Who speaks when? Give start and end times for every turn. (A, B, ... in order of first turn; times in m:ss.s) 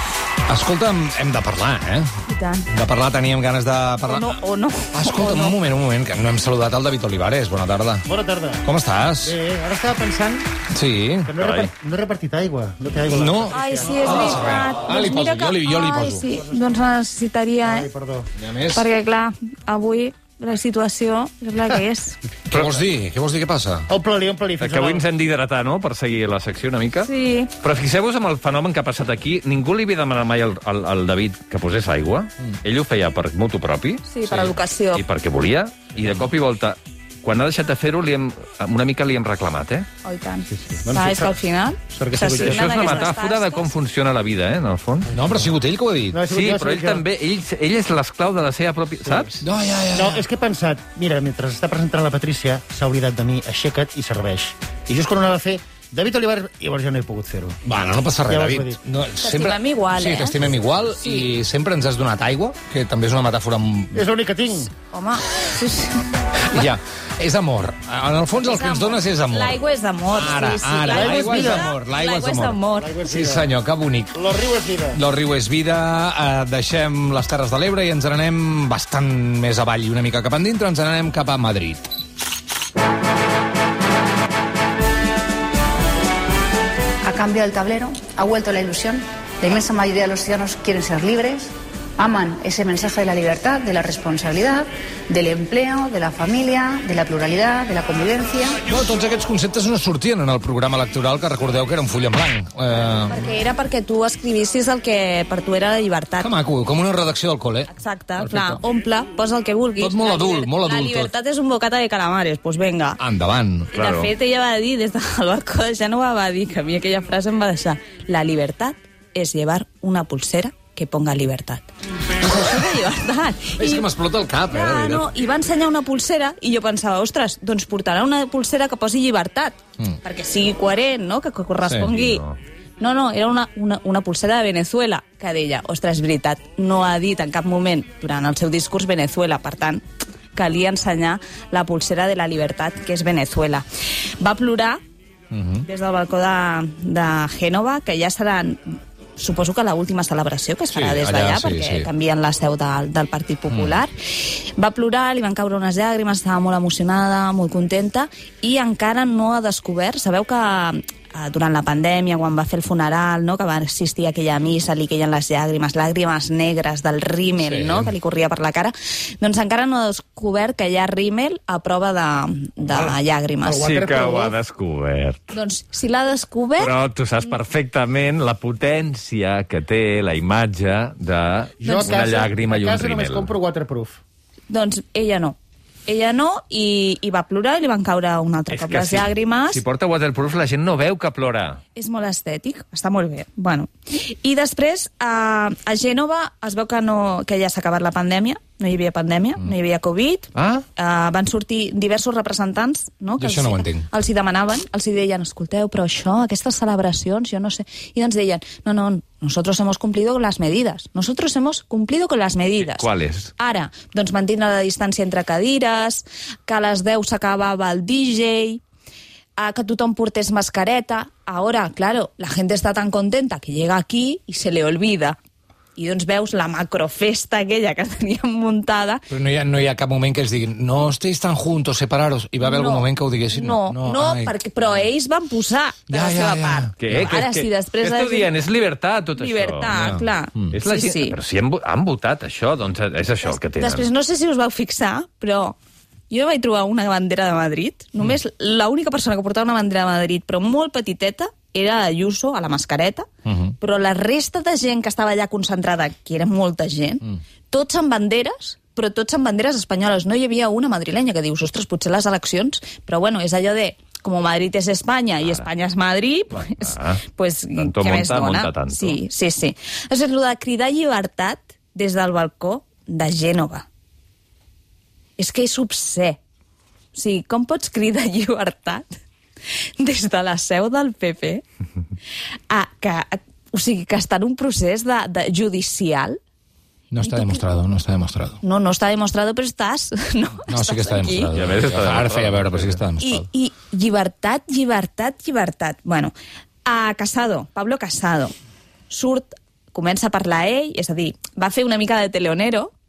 0:00.5-0:02.1 A
0:02.3-0:02.7 B
0:02.7-0:04.4 A
0:04.0-0:05.6 B
0:04.9-0:08.1 A
0:08.0-0:08.6 C
0:08.6-0:09.4 A
0:09.2-0:10.5 C
0:10.7-0:11.3 A
0:11.2-0:14.6 C
0:11.4-0:11.7 D
0:13.1-0:16.3 A
0:13.5-0:17.9 B
0:16.3-0:16.8 C
0:17.6-0:18.3 C
0:18.4-0:18.8 A
0:18.7-0:22.2 B
0:22.5-0:22.8 D
0:22.5-0:23.9 A
0:23.9-0:25.0 C
0:24.6-0:39.9 D
0:27.0-0:27.5 B
0:34.1-0:35.0 B
0:40.0-0:43.7 B
0:40.5-0:43.1 C
0:42.2-0:45.1 D
0:45.1-0:46.2 A
0:46.1-0:47.0 C
0:46.3-0:49.4 D
0:49.0-0:49.4 C
0:49.4-0:50.2 A
0:49.9-0:57.6 C
0:57.6-1:04.0 A
0:58.2-0:58.8 C
0:59.2-1:00.4 B
1:01.0-1:01.3 B
1:03.9-1:04.7 C
1:04.9-1:06.6 B
1:06.5-1:09.6 A
1:08.4-1:12.9 B
1:10.1-1:14.2 A
1:10.9-1:11.7 C
1:12.7-1:13.5 C
1:14.1-1:15.0 C
1:14.9-1:21.9 A
1:27.0-1:38.6 E
1:38.6-1:43.2 A
1:43.1-1:46.3 B
1:46.2-1:48.6 A
1:47.7-1:53.0 B
1:49.8-1:51.1 A
1:53.0-1:53.7 A
1:53.7-1:54.1 D
1:53.7-2:03.9 B
2:03.6-2:05.1 A
2:04.5-2:12.2 B
2:11.8-2:12.4 D
2:12.8-2:19.8 B
2:20.3-2:24.8 B
2:25.3-2:25.6 A
2:25.6-2:53.7 B
2:30.7-2:31.9 A
2:33.5-2:33.8 A
2:47.4-2:47.9 A
2:52.7-2:54.4 C
2:53.6-2:55.4 D
2:55.3-2:56.7 B
2:56.6-3:03.3 D
3:01.6-3:04.0 C
3:01.6-3:02.1 B
3:04.5-3:09.6 B
3:08.5-3:11.6 D
3:11.8-3:38.6 B
3:20.4-3:20.6 D
3:23.2-3:23.9 A
3:32.6-3:33.3 D
3:39.4-3:45.2 B
3:45.8-3:49.1 B
3:49.1-3:54.3 A
3:52.4-3:58.3 B
3:55.9-3:57.1 A
3:56.8-3:59.7 D
3:59.2-4:01.2 B
3:59.7-4:00.5 A
4:00.5-4:03.9 D
4:03.2-4:05.6 B
4:06.1-4:13.1 B
4:13.2-4:13.5 A
4:13.6-4:33.7 B
4:26.4-4:27.0 D
4:27.6-4:29.0 D
4:35.2-4:36.2 B
4:36.9-4:38.9 B
4:39.8-4:41.4 B
4:42.5-4:46.2 B
4:46.9-4:48.4 A
4:47.0-4:47.4 B
4:48.4-4:51.3 B
4:50.5-4:53.3 A
4:51.3-4:52.8 D
4:53.0-4:56.1 B
4:56.6-4:58.3 B
4:58.9-5:02.7 B